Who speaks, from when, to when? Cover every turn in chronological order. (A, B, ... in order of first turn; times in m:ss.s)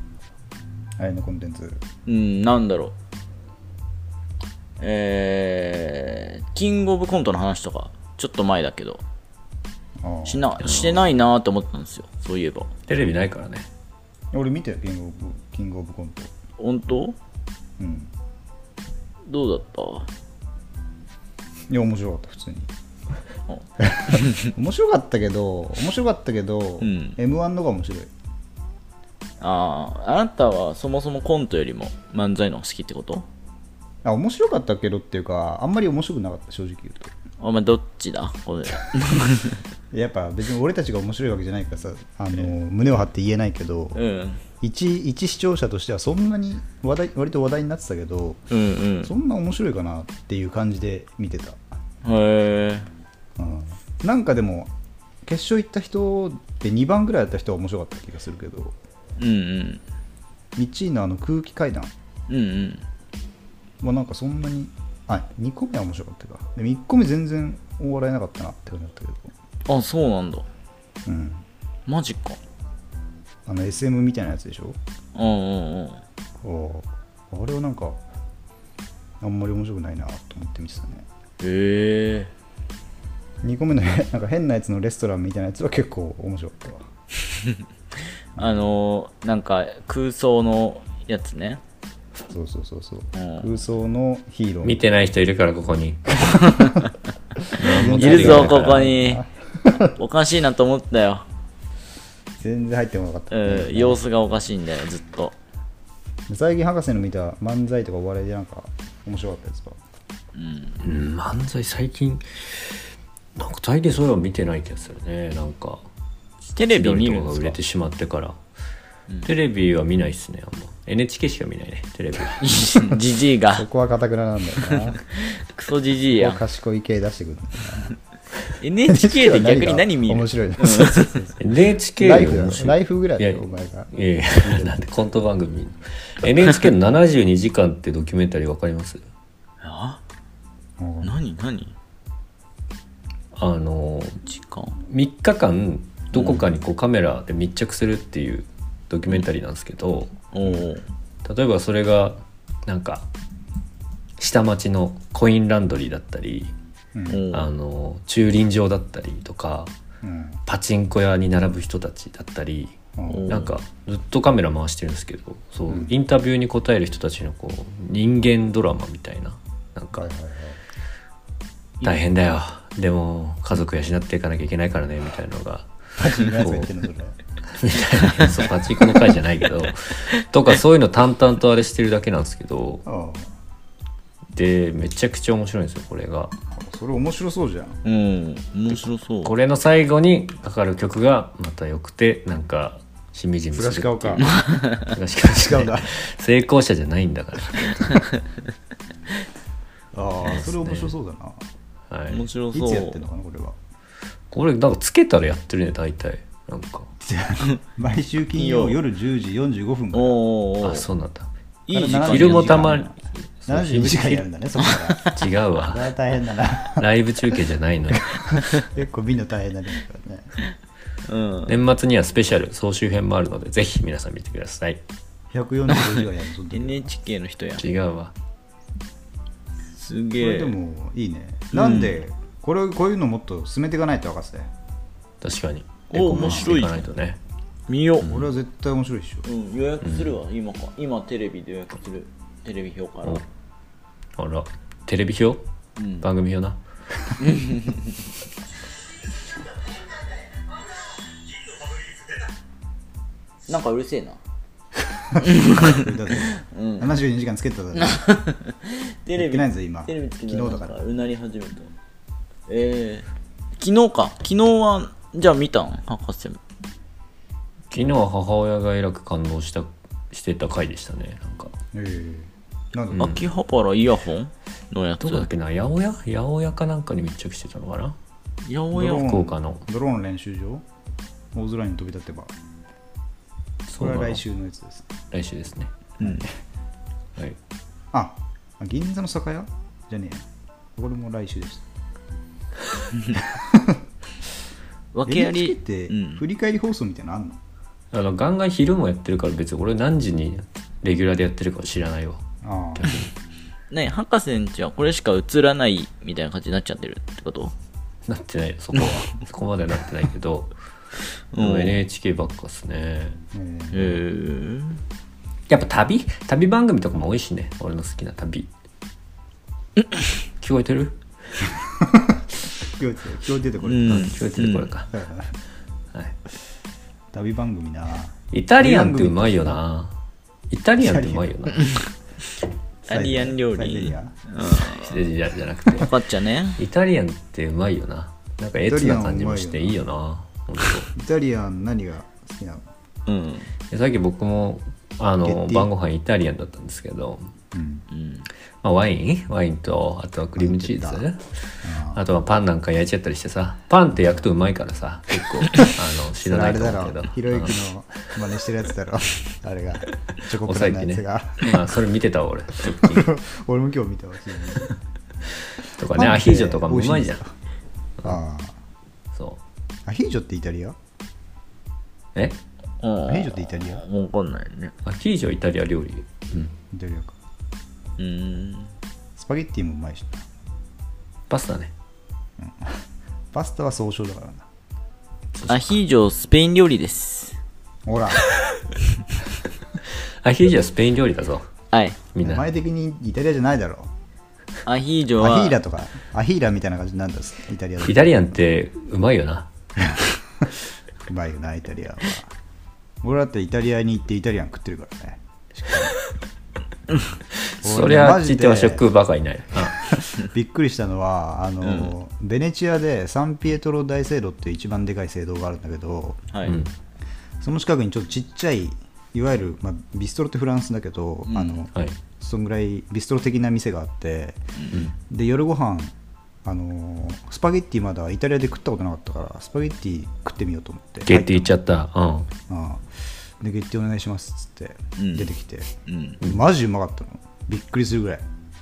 0:01.0-0:01.8 A
0:02.0-0:02.9 B
0:04.8-0:09.0 B
0:10.0-0:10.5 A
0:10.2-0:12.7 B
0:10.6-0:11.1 C
0:12.9-0:13.7 C
0:14.3-0:16.3 A
0:16.6-0:17.2 B
0:17.8-0:18.1 A
0:19.2-0:20.1 B
0:21.7-0:22.7 A
0:23.5-0:24.5 B
0:23.8-0:28.1 A
0:26.8-0:27.2 B
0:29.4-0:33.2 B
0:34.0-0:37.1 A
0:37.4-0:39.6 B
0:39.9-0:44.0 A
0:43.9-0:44.4 B
0:44.6-0:48.4 A
0:48.5-0:49.1 B
0:49.0-0:51.6 A
0:52.0-0:52.9 B
0:53.4-0:54.7 A
0:55.2-0:58.8 A
0:59.2-0:59.8 B
1:00.6-1:01.9 A
1:02.3-1:02.8 B
1:03.8-1:09.3 A
1:09.7-1:10.5 B
1:11.0-1:11.4 A
1:11.9-1:12.4 B
1:13.4-1:14.8 A
1:15.1-1:16.0 B
1:16.4-1:18.0 A
1:19.2-1:21.0 A
1:21.4-1:22.3 B
1:23.4-1:26.9 A
1:28.4-1:28.6 A
1:28.4-1:31.6 B
1:32.2-1:34.8 A
1:33.1-1:33.5 B
1:34.6-1:36.2 C
1:37.5-1:38.9 C
1:37.7-1:39.9 A
1:37.7-1:39.2 B
1:39.9-1:41.2 B
1:42.4-1:44.0 A
1:43.3-1:45.3 B
1:46.3-1:49.8 A
1:50.3-1:50.8 B
1:50.8-1:52.8 C
1:53.4-1:55.8 C
1:56.5-1:57.6 B
1:56.7-1:58.4 C
1:59.2-2:02.4 C
2:02.4-2:03.7 B
2:03.5-2:05.0 A
2:04.7-2:06.4 B
2:06.1-2:07.9 A
2:08.6-2:11.2 B
2:08.9-2:11.4 A
2:11.4-2:19.0 C
2:12.0-2:14.7 A
2:19.6-2:20.0 B
2:20.8-2:21.1 A
2:21.0-2:21.7 B
2:23.3-2:24.2 C
2:24.2-2:24.7 B
2:24.9-2:30.1 C
2:26.2-2:26.4 B
2:30.3-2:30.9 B
2:31.2-2:33.1 C
2:34.2-2:36.5 C
2:36.9-2:37.2 A
2:37.1-2:37.4 B
2:37.3-2:39.7 C
2:40.0-2:40.4 A
2:40.5-2:50.1 C
2:43.0-2:43.3 A
2:43.1-2:43.6 B
2:45.7-2:45.9 A
2:49.9-2:50.6 A
2:51.8-2:55.7 C
2:56.0-2:57.2 A
2:56.3-2:56.7 C
2:57.5-3:02.8 C
3:02.8-3:03.3 A
3:04.3-3:06.3 C
3:06.5-3:07.8 A
3:07.8-3:09.3 B
3:09.2-3:18.0 C
3:13.5-3:14.3 A
3:14.2-3:14.9 B
3:15.4-3:15.9 A
3:19.9-3:21.4 A
3:20.2-3:20.9 C
3:21.9-3:22.2 C
3:22.1-3:23.0 B
3:22.5-3:23.6 A
3:24.3-3:26.9 C
3:27.0-3:30.2 A
3:28.4-3:28.8 B
3:29.9-3:30.9 B
3:30.6-3:31.3 C
3:31.7-3:32.6 B
3:31.7-3:37.3 A
3:31.9-3:34.2 C
3:34.6-3:35.1 B
3:35.1-3:35.9 C
3:36.8-3:38.5 C
3:37.9-3:40.3 A
3:41.0-3:41.5 B
3:41.5-3:44.8 C
3:45.3-3:46.9 A
3:45.7-3:46.0 B
3:46.5-3:47.6 B
3:47.6-3:48.1 C
3:49.8-3:50.5 B
3:50.2-3:54.5 A
3:51.5-3:52.0 B
3:55.2-3:57.2 C
3:55.9-3:56.9 B
3:56.2-3:56.5 A
3:57.7-3:58.1 B
3:58.0-3:58.3 C
3:58.0-3:59.2 A
3:59.2-4:03.2 B
3:59.8-4:00.1 C
4:04.2-4:05.4 C
4:05.8-4:06.0 B
4:06.0-4:06.6 C
4:07.2-4:08.0 B
4:13.5-4:14.2 B
4:15.1-4:18.0 A
4:15.2-4:16.9 B
4:17.7-4:21.7 B
4:19.2-4:20.8 A
4:22.5-4:26.4 B
4:27.7-4:31.5 C
4:31.7-4:33.1 A
4:32.9-4:33.2 C
4:33.0-4:35.3 B
4:35.0-4:38.0 C
4:38.4-4:39.1 B
4:38.7-4:40.6 A
4:38.9-4:39.6 C
4:41.3-4:42.3 A
4:43.7-4:44.2 C
4:43.8-4:44.9 A
4:45.1-4:45.7 C
4:46.0-4:46.3 A
4:47.9-4:51.7 A
4:53.2-4:53.8 A
4:54.9-4:56.2 B
4:55.0-4:57.4 A
4:57.9-5:03.1 C
5:02.4-5:03.0 A
5:03.7-5:07.5 B
5:08.1-5:10.5 C
5:11.3-5:11.8 B
5:11.4-5:13.2 C
5:13.3-5:14.0 A
5:13.7-5:14.8 B
5:15.5-5:18.5 C
5:20.4-5:21.0 C
5:21.8-5:24.1 A
5:23.6-5:24.7 B
5:23.9-5:24.9 C
5:24.9-5:25.3 A
5:27.1-5:29.6 A
5:28.3-5:29.9 C
5:30.5-5:31.7 C
5:30.8-5:31.3 A
5:32.9-5:35.0 B
5:32.9-5:34.2 A
5:34.5-5:35.9 C
5:35.7-5:36.6 B
5:36.6-5:40.9 C
5:38.6-5:39.8 A
5:40.9-5:42.6 A
5:43.1-5:43.5 B
5:43.7-5:47.3 C
5:45.2-5:45.7 A
5:47.5-5:47.9 A
5:47.9-5:48.3 B
5:48.6-5:51.3 C
5:50.4-5:51.0 A
5:51.6-5:52.0 A
5:51.9-5:57.6 C
5:56.2-6:01.5 A
6:00.4-6:03.1 C
6:02.7-6:04.7 A
6:05.6-6:07.2 C
6:05.9-6:07.3 A
6:08.0-6:08.6 A
6:09.1-6:09.4 C
6:09.9-6:10.8 A
6:12.8-6:14.7 B
6:13.1-6:13.8 A
6:14.8-6:16.5 C
6:16.7-6:17.2 A
6:18.0-6:18.7 B
6:19.2-6:20.2 A
6:21.3-6:21.7 C
6:22.4-6:24.5 A
6:25.3-6:25.8 C
6:25.5-6:27.4 B
6:27.8-6:28.2 A
6:28.3-6:28.6 C
6:30.2-6:31.5 C
6:31.7-6:32.0 B
6:32.1-6:32.4 C
6:32.2-6:33.9 A
6:34.6-6:35.6 B
6:35.2-6:38.1 A
6:37.8-6:39.5 C
6:39.8-6:42.3 A
6:43.0-6:45.9 A
6:47.4-6:49.9 C
6:47.6-6:48.8 A
6:49.9-6:56.3 A
6:51.6-6:51.9 B
6:56.3-6:56.6 B
6:56.4-6:56.7 C
6:57.4-7:04.4 A
7:01.3-7:01.6 B
7:04.6-7:04.8 B
7:05.1-7:05.9 A
7:06.4-7:11.5 A
7:11.1-7:12.3 C
7:12.5-7:18.2 A
7:15.0-7:15.3 B
7:15.8-7:16.2 B